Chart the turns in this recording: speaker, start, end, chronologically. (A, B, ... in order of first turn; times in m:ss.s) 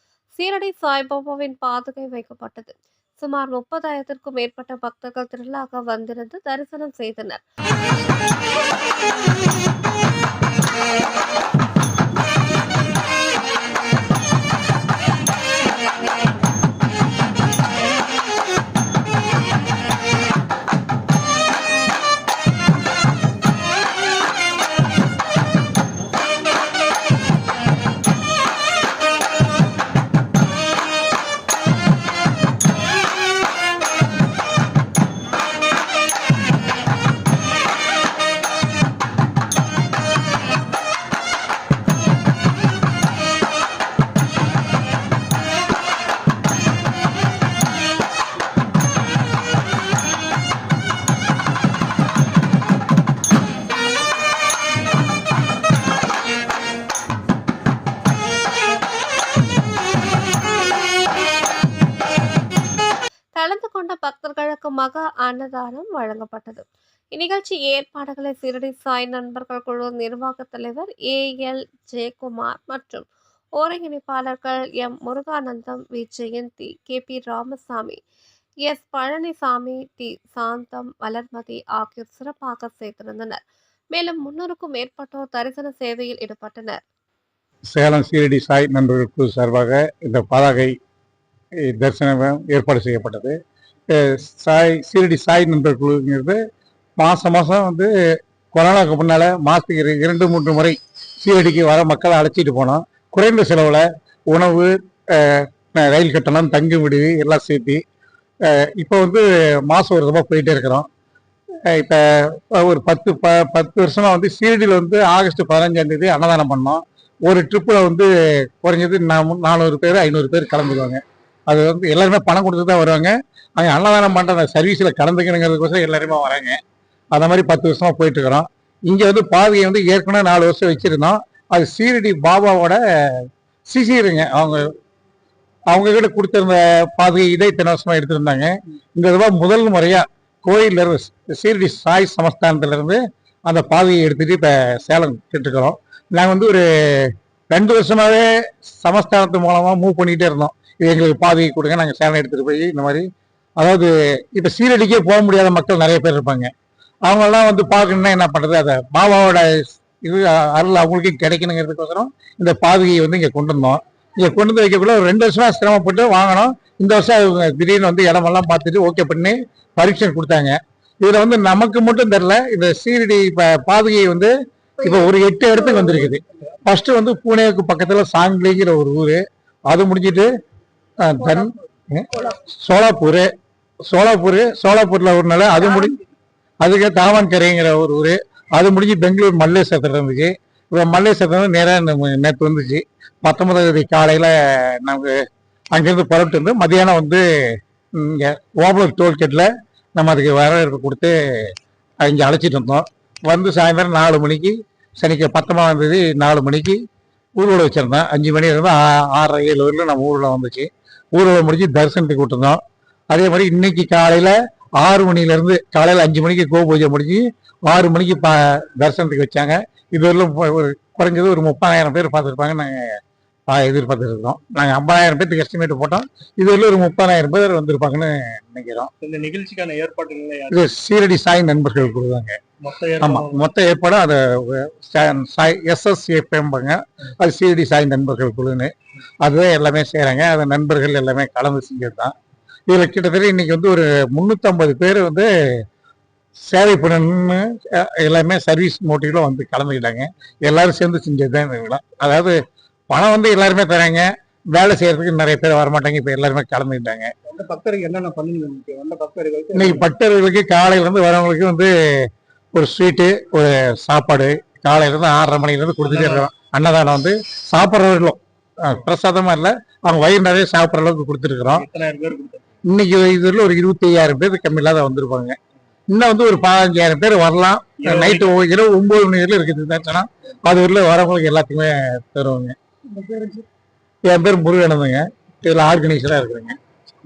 0:00.3-0:07.4 A
1:03.3-1:13.0 A
1:13.6-1:18.0 A
1:18.6-1:23.4 A
1:23.9-1:26.8 A
1:27.7-1:30.7 B
1:31.6-1:33.3 B
1:33.9-1:36.4 B
1:37.0-1:37.9 B
1:38.5-1:47.8 B
1:48.4-1:50.9 B
1:51.7-2:06.6 B
2:07.1-2:14.7 B
2:15.7-2:33.0 B
2:33.6-2:36.5 B
2:37.0-3:00.3 B
3:01.0-3:03.3 B
3:03.8-3:06.0 B
3:06.6-3:15.2 B
3:15.7-3:17.2 B
3:18.0-3:21.5 B
3:22.0-3:26.8 B
3:27.4-3:43.0 B
3:43.5-3:48.9 B
3:49.0-3:50.6 C
3:50.5-3:52.4 B
3:52.6-3:53.4 C
3:53.0-3:58.7 B
3:59.2-4:02.1 B
4:02.7-4:05.6 B
4:06.5-4:12.4 B
4:12.9-4:17.1 B
4:17.2-4:19.8 C
4:19.5-4:31.7 B
4:25.8-4:26.3 C
4:31.5-4:32.4 C
4:32.7-4:35.4 B
4:35.9-4:42.6 B
4:37.8-4:38.3 C
4:43.0-4:43.4 C
4:44.0-4:46.6 B